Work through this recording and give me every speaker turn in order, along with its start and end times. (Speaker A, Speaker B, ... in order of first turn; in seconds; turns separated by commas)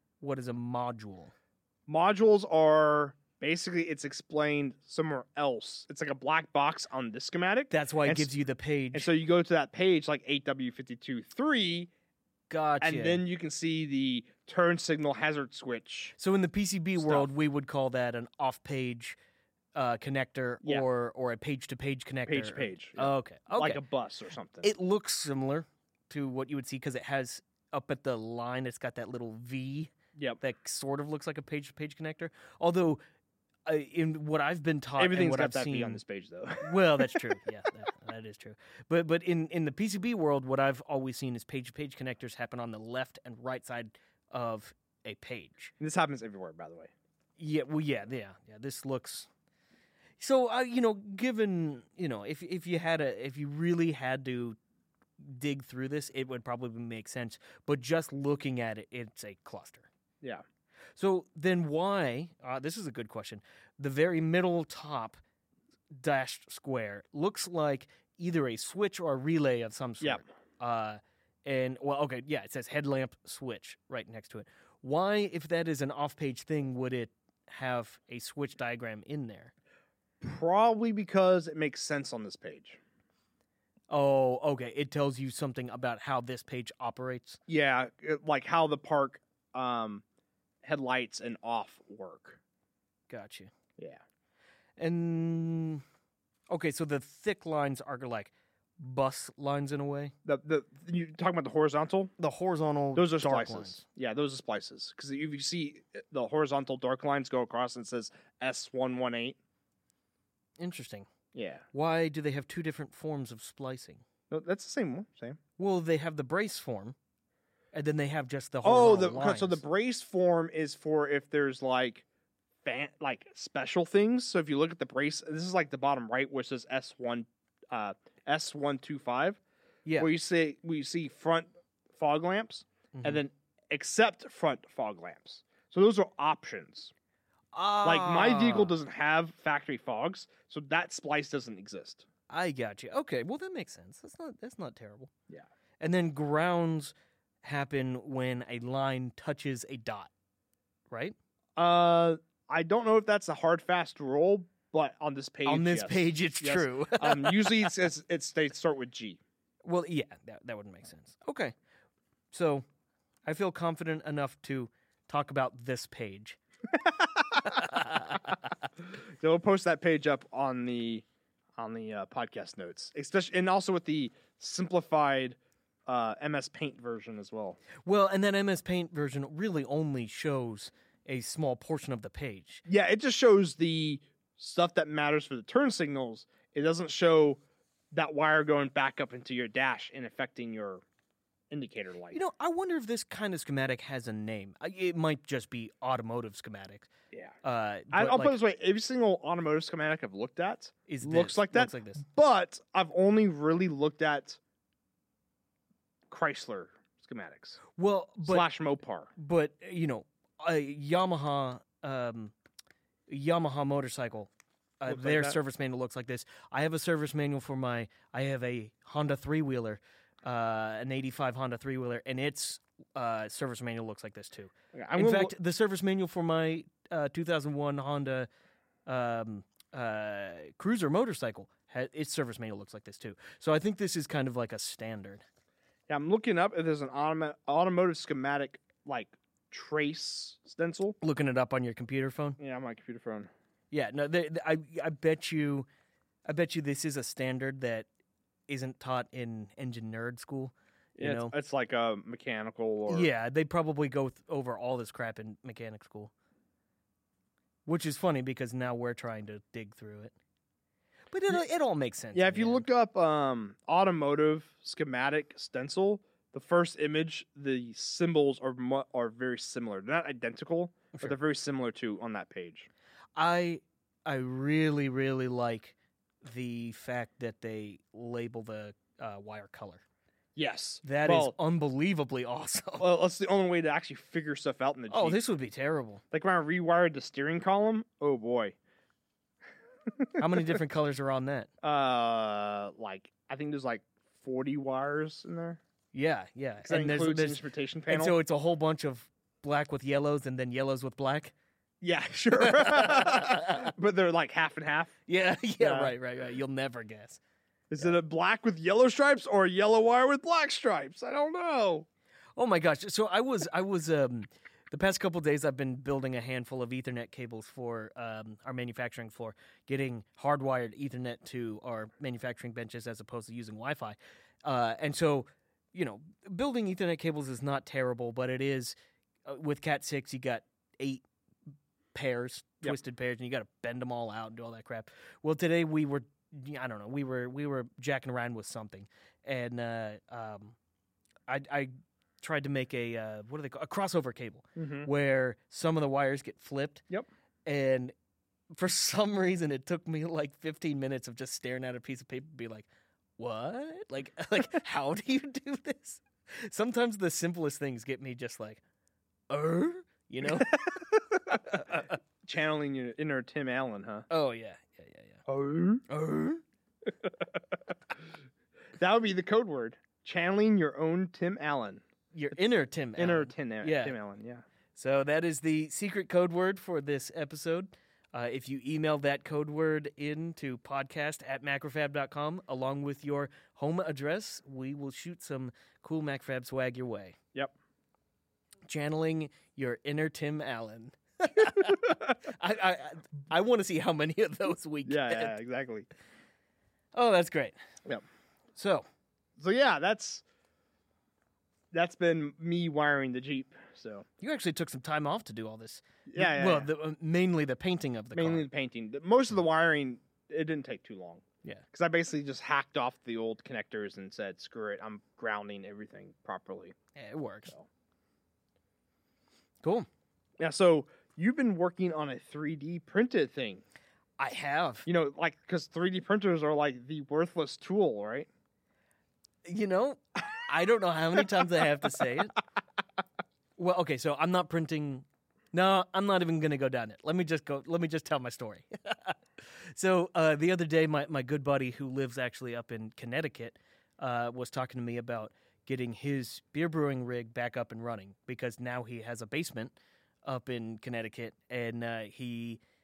Speaker A: 0.2-1.3, Speaker B: 1.9-8.3, Speaker A: 7.7-9.1, Speaker B: 8.9-11.9, Speaker A: 12.5-13.2, Speaker B: 12.8-16.1, Speaker A: 16.2-19.2, Speaker B: 17.0-17.3, Speaker A: 19.7-23.8, Speaker B: 22.3-24.7, Speaker A: 24.6-33.0, Speaker A: 33.6-36.0, Speaker B: 35.0-37.4, Speaker A: 36.6-45.7, Speaker B: 45.8-46.9, Speaker A: 47.4-49.3, Speaker A: 50.2-54.6, Speaker A: 55.2-59.9, Speaker A: 61.0-65.2, Speaker A: 65.9-79.5, Speaker B: 80.2-82.8, Speaker A: 83.9-87.4, Speaker B: 87.5-90.0, Speaker B: 90.6-92.4, Speaker A: 93.1-93.5, Speaker A: 94.8-95.8, Speaker A: 96.5-100.1, Speaker B: 100.2-102.1, Speaker A: 102.2-103.8, Speaker B: 103.0-109.4, Speaker A: 110.6-111.1, Speaker B: 111.3-111.7, Speaker A: 111.7-114.0, Speaker B: 114.3-115.4, Speaker A: 115.6-117.0, Speaker A: 117.7-119.6, Speaker B: 118.6-122.0, Speaker B: 122.6-129.4, Speaker A: 129.8-130.1, Speaker B: 130.0-136.9, Speaker A: 132.9-133.2, Speaker A: 137.5-138.7, Speaker B: 137.8-142.1, Speaker A: 142.3-145.1, Speaker A: 145.8-150.1, Speaker A: 150.9-151.2, Speaker B: 151.6-159.2, Speaker A: 155.4-157.7, Speaker A: 159.6-161.5, Speaker A: 162.3-162.6, Speaker A: 163.2-166.4, Speaker B: 166.7-167.7, Speaker A: 167.4-168.4, Speaker B: 168.9-171.1, Speaker B: 171.6-177.6, Speaker A: 177.8-182.6, Speaker B: 182.7-187.4, Speaker B: 187.9-190.8, Speaker B: 191.5-192.2, Speaker A: 192.1-196.9, Speaker A: 197.4-198.4, Speaker B: 197.9-204.4, Speaker A: 200.9-202.0, Speaker B: 206.1-207.6, Speaker A: 207.8-208.5, Speaker B: 208.2-209.1, Speaker A: 209.2-212.3, Speaker A: 213.1-228.3, Speaker B: 214.9-215.4, Speaker B: 224.7-225.3, Speaker A: 228.9-235.2, Speaker B: 235.9-241.0, Speaker A: 241.0-242.4, Speaker B: 242.4-243.3, Speaker A: 243.7-245.7, Speaker A: 246.2-247.9, Speaker A: 248.5-251.3, Speaker B: 251.0-253.1, Speaker A: 252.9-256.1, Speaker A: 257.6-260.1, Speaker A: 261.1-262.6, Speaker B: 262.1-272.7, Speaker A: 273.1-279.8, Speaker B: 280.4-281.3, Speaker A: 280.8-282.9, Speaker B: 282.8-285.2, Speaker A: 284.9-286.0, Speaker B: 286.1-288.6, Speaker A: 290.1-291.5, Speaker B: 291.6-295.6, Speaker A: 295.9-301.3, Speaker B: 296.6-298.1, Speaker B: 301.8-304.9, Speaker A: 302.4-303.7, Speaker A: 305.1-307.2, Speaker B: 305.6-305.9, Speaker B: 307.7-311.9, Speaker A: 312.4-331.0, Speaker A: 331.9-340.6, Speaker A: 341.3-346.8, Speaker B: 344.6-344.9, Speaker A: 347.4-347.9, Speaker A: 348.5-358.6, Speaker A: 359.3-360.7, Speaker B: 360.4-364.1, Speaker A: 361.3-361.9, Speaker A: 364.1-365.2, Speaker B: 365.3-365.8, Speaker A: 365.9-366.4, Speaker B: 367.0-367.3, Speaker B: 368.8-371.8, Speaker A: 372.1-373.9, Speaker B: 373.0-374.4, Speaker A: 374.7-387.2, Speaker A: 388.7-395.4, Speaker B: 394.9-395.9, Speaker A: 396.9-397.6, Speaker A: 398.6-398.9, Speaker B: 399.4-400.2, Speaker B: 401.7-404.1, Speaker A: 404.2-408.5, Speaker B: 406.1-406.7, Speaker B: 408.1-416.7, Speaker A: 416.9-417.6, Speaker A: 419.6-419.9, Speaker B: 420.4-423.6, Speaker A: 424.2-424.9, Speaker B: 424.9-428.3, Speaker A: 429.4-432.4, Speaker A: 433.6-452.6